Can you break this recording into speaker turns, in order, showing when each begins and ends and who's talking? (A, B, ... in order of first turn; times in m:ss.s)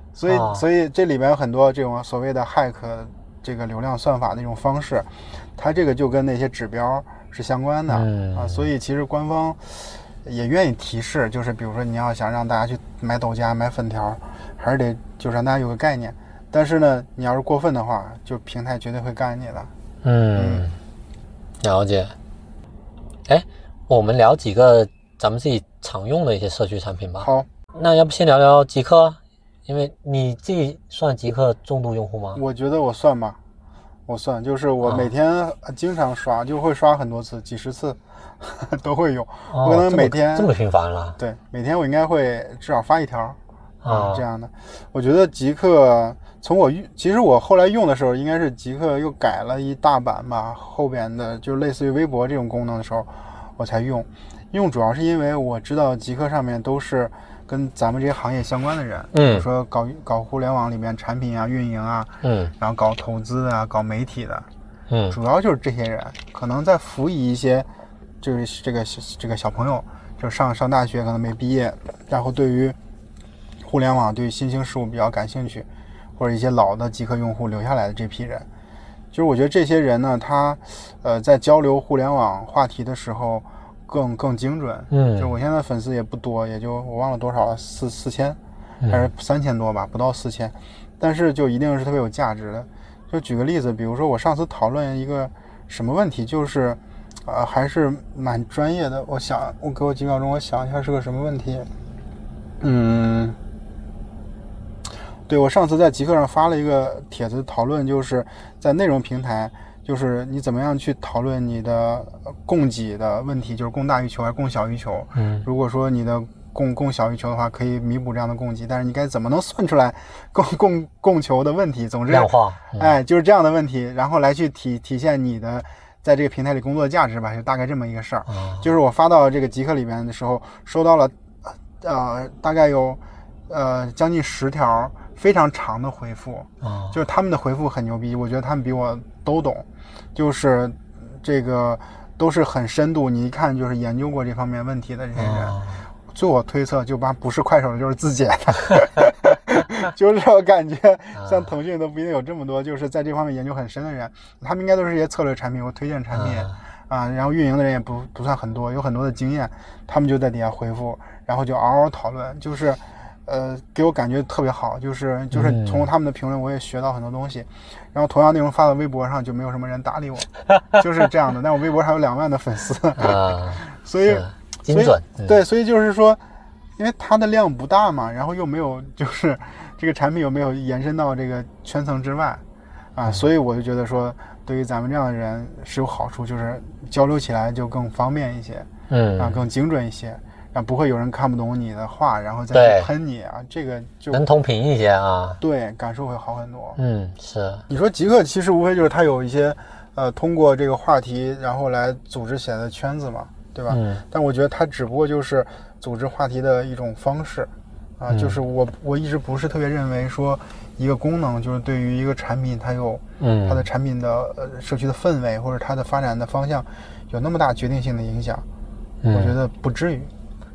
0:00.2-0:19.7 A
0:00.3-0:00.6 B
0:07.9-0:08.7 B
0:20.0-0:20.8 B
0:20.4-0:20.7 A
0:21.6-0:22.1 B
0:23.3-0:32.4 B
0:27.2-0:27.5 A
0:32.4-0:33.4 A
0:34.1-0:40.5 A
0:34.8-0:35.1 B
0:39.5-0:41.2 B
0:41.2-1:04.5 A
0:43.8-0:44.2 B
0:59.1-0:59.5 B
1:02.2-1:02.5 B
1:04.9-1:05.2 B
1:05.1-1:07.7 A
1:08.2-1:12.8 A
1:13.6-1:15.7 A
1:16.2-1:18.5 A
1:19.1-1:28.4 A
1:24.9-1:25.3 B
1:28.8-1:29.1 B
1:28.9-1:41.7 A
1:42.6-1:43.4 A
1:45.3-2:56.2 A
1:55.2-1:55.4 B
2:02.1-2:02.9 B
2:08.3-2:08.7 B
2:16.6-2:17.0 B
2:25.2-2:25.8 B
2:31.2-2:31.5 B
2:36.1-2:36.5 B
2:45.3-2:45.9 B
2:53.0-2:55.4 B
2:56.8-3:02.4 A
3:03.0-3:14.2 A
3:08.9-3:09.4 B
3:12.5-3:12.9 B
3:14.1-3:15.4 B
3:15.4-3:16.8 A
3:16.8-3:17.6 B
3:17.7-3:38.4 A
3:23.7-3:24.0 B
3:28.1-3:28.4 B
3:33.2-3:33.7 B
3:39.0-3:39.4 B
3:39.1-3:40.1 A